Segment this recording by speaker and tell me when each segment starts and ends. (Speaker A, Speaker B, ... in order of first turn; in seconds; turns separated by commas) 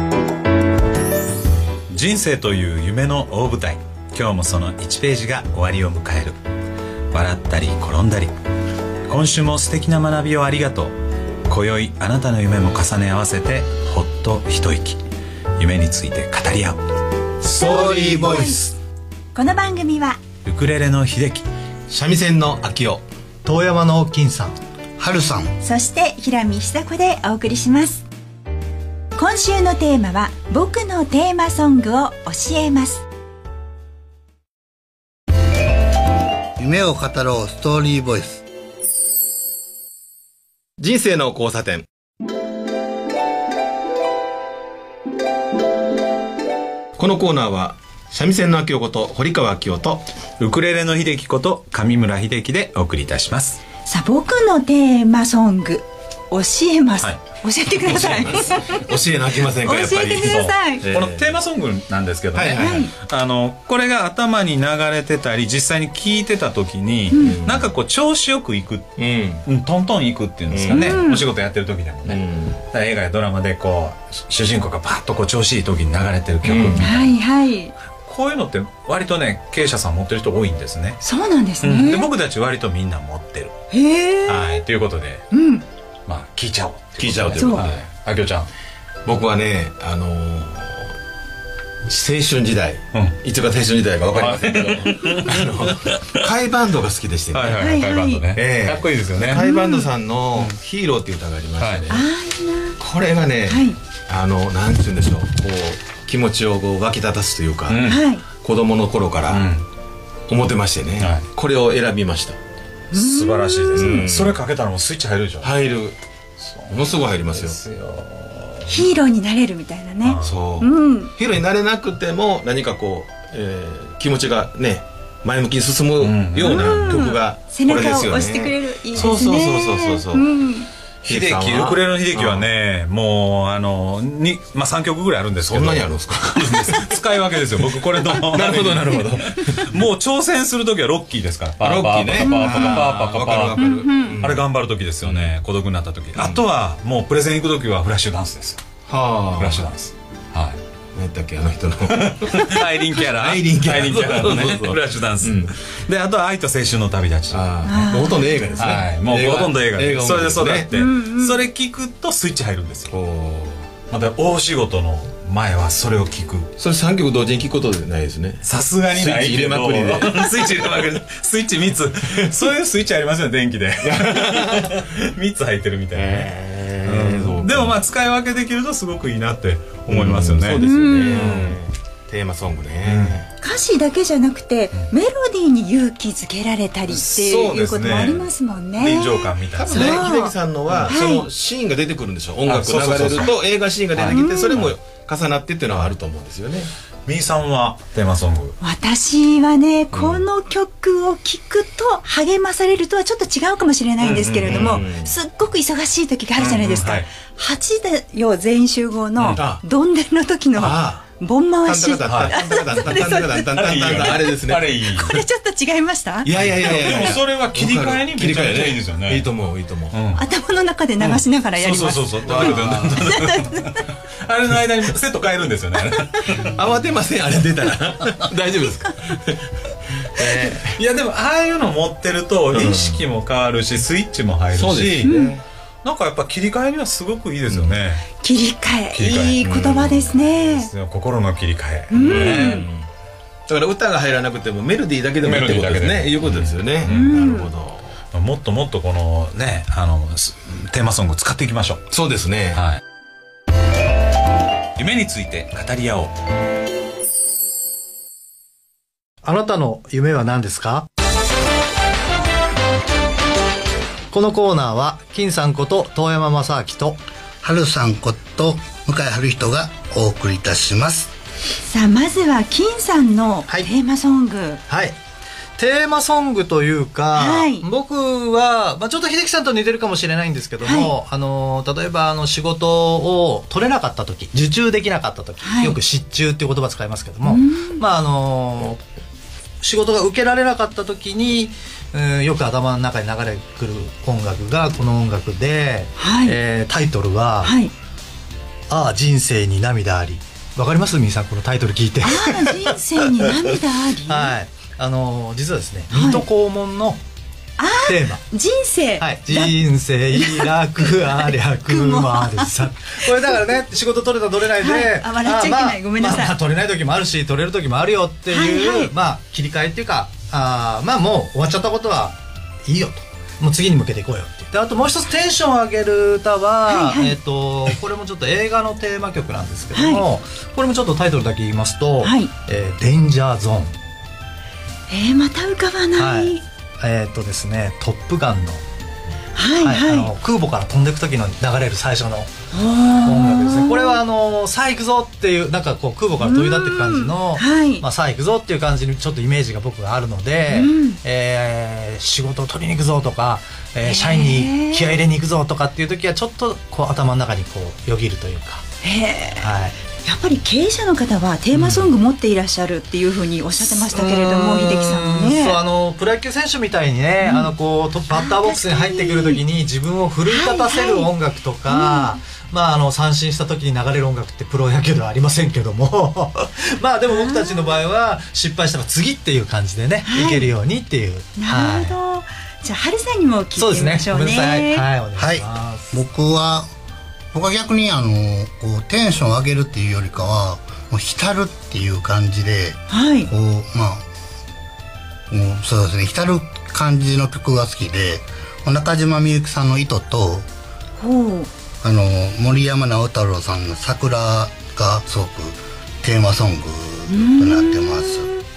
Speaker A: 1.9-6.4, Speaker A: 7.1-8.3, Speaker A: 9.1-11.0, Speaker A: 11.5-15.0, Speaker A: 15.6-16.8, Speaker B: 17.4-18.5, Speaker C: 17.4-18.7, Speaker D: 17.6-18.7, Speaker D: 19.3-20.2, Speaker A: 20.4-21.5, Speaker B: 21.9-23.0, Speaker E: 23.4-24.6, Speaker C: 25.0-25.6, Speaker D: 25.6-28.1, Speaker D: 29.2-33.0, Speaker C: 36.6-38.4, Speaker B: 40.8-41.9, Speaker B: 47.0-50.1, Speaker A: 50.4-53.6, Speaker D: 53.9-58.9, Speaker B: 57.8-61.4, Speaker A: 57.9-58.2, Speaker D: 59.5-60.9, Speaker A: 60.1-68.9, Speaker B: 62.3-62.9, Speaker D: 62.5-62.9, Speaker D: 67.1-67.4, Speaker B: 67.2-67.7, Speaker B: 69.0-69.4, Speaker A: 69.5-77.2, Speaker B: 70.5-71.0, Speaker D: 70.7-71.3, Speaker B: 72.1-72.6, Speaker B: 76.4-76.9, Speaker D: 76.6-77.7, Speaker A: 78.0-81.0, Speaker D: 81.0-82.1, Speaker A: 81.6-83.5, Speaker D: 83.7-84.6, Speaker A: 84.3-85.2, Speaker D: 85.3-85.6, Speaker A: 86.1-88.5, Speaker B: 87.0-87.8, Speaker D: 87.3-87.6, Speaker B: 89.0-90.9, Speaker B: 91.9-97.6, Speaker A: 94.1-96.3, Speaker A: 97.3-99.4, Speaker D: 97.5-98.3, Speaker B: 98.3-102.1, Speaker D: 99.3-99.9, Speaker A: 101.6-101.9, Speaker D: 101.9-102.8, Speaker B: 102.8-109.5, Speaker D: 103.5-103.8, Speaker A: 107.7-108.1, Speaker D: 107.8-108.2, Speaker A: 109.3-109.7, Speaker B: 110.3-112.4, Speaker A: 111.0-111.2, Speaker D: 112.9-114.0, Speaker A: 112.9-115.6, Speaker B: 113.7-114.4, Speaker B: 115.4-116.0, Speaker A: 116.4-118.9, Speaker B: 116.7-117.6, Speaker D: 118.7-121.1, Speaker A: 120.0-120.4, Speaker B: 120.2-130.3, Speaker A: 126.0-127.0, Speaker D: 126.4-130.7, Speaker B: 131.0-132.5, Speaker A: 131.1-148.6, Speaker B: 135.4-139.8, Speaker B: 141.6-144.5, Speaker D: 142.2-142.9, Speaker D: 143.6-144.2, Speaker B: 145.0-145.3, Speaker B: 146.2-146.4, Speaker B: 148.9-149.7, Speaker A: 149.3-150.6, Speaker B: 150.9-155.5, Speaker A: 152.0-157.9, Speaker B: 157.3-160.7, Speaker D: 157.6-158.8, Speaker A: 158.6-162.9, Speaker D: 160.7-161.4, Speaker B: 162.9-163.8, Speaker A: 163.8-166.5, Speaker B: 166.6-170.9, Speaker A: 168.4-176.3, Speaker B: 173.9-174.7, Speaker B: 175.9-177.8, Speaker A: 176.8-181.6, Speaker B: 179.9-183.3, Speaker D: 180.5-181.3, Speaker A: 182.9-183.2, Speaker D: 183.4-190.3, Speaker B: 186.9-188.2, Speaker A: 187.6-188.2, Speaker B: 188.8-196.7, Speaker A: 188.8-190.1, Speaker D: 190.9-191.3, Speaker A: 192.5-193.3, Speaker A: 194.0-194.7, Speaker D: 194.1-194.6, Speaker A: 197.1-198.6, Speaker D: 198.6-213.5, Speaker B: 199.9-200.2, Speaker A: 204.0-204.8, Speaker B: 204.4-205.1, Speaker A: 206.4-207.1, Speaker B: 210.6-211.1, Speaker B: 211.6-214.8, Speaker A: 212.1-215.2, Speaker D: 214.9-217.2, Speaker B: 216.2-220.0, Speaker A: 216.4-219.3, Speaker A: 219.9-220.2, Speaker D: 220.1-223.8, Speaker A: 221.0-226.6, Speaker B: 222.2-223.0, Speaker B: 226.3-229.5, Speaker B: 230.2-230.7, Speaker A: 230.4-235.1, Speaker B: 232.5-233.0, Speaker B: 234.5-235.4, Speaker D: 235.0-235.3, Speaker A: 235.8-238.1, Speaker B: 237.5-237.8, Speaker D: 238.2-240.7, Speaker A: 238.9-242.6, Speaker B: 239.4-240.0, Speaker D: 241.9-242.7, Speaker B: 241.9-242.9, Speaker B: 243.5-248.0, Speaker A: 245.2-247.2, Speaker D: 246.8-247.5, Speaker A: 248.1-251.8, Speaker B: 251.9-252.6, Speaker A: 252.5-252.8, Speaker A: 254.8-256.1, Speaker E: 259.2-260.9, Speaker E: 264.1-267.0, Speaker C: 267.4-271.1, Speaker D: 271.6-274.6, Speaker E: 274.7-275.0, Speaker E: 275.6-288.8, Speaker D: 277.1-277.7, Speaker D: 280.6-280.9, Speaker D: 285.4-285.8, Speaker D: 287.2-287.8, Speaker E: 289.6-297.6, Speaker D: 296.0-296.4, Speaker D: 297.4-297.7, Speaker E: 298.7-302.7, Speaker D: 302.0-304.4, Speaker E: 304.1-307.0, Speaker D: 305.9-306.2, Speaker D: 307.6-309.6, Speaker E: 307.8-308.2, Speaker E: 309.0-333.7, Speaker D: 310.1-312.6, Speaker D: 314.6-316.4, Speaker D: 318.3-318.9, Speaker D: 326.7-327.2, Speaker D: 329.7-330.0, Speaker D: 332.0-332.3, Speaker D: 334.9-336.4, Speaker E: 336.0-338.6, Speaker D: 339.4-340.1, Speaker E: 339.6-342.3, Speaker D: 342.5-344.0, Speaker E: 343.0-358.6, Speaker D: 346.2-347.8, Speaker D: 350.5-351.0, Speaker D: 353.8-355.0, Speaker D: 358.8-365.6, Speaker E: 359.4-359.8, Speaker E: 361.5-361.9, Speaker E: 363.7-382.0, Speaker D: 367.2-367.5, Speaker D: 368.1-369.4, Speaker D: 370.3-371.1, Speaker D: 371.7-372.2, Speaker D: 377.1-377.8, Speaker D: 380.1-380.5, Speaker D: 381.4-384.8, Speaker E: 383.6-386.0, Speaker C: 385.2-386.7, Speaker C: 387.3-394.0, Speaker D: 392.9-393.3, Speaker C: 395.3-400.5, Speaker D: 401.0-401.5, Speaker C: 401.8-408.3, Speaker D: 407.1-408.4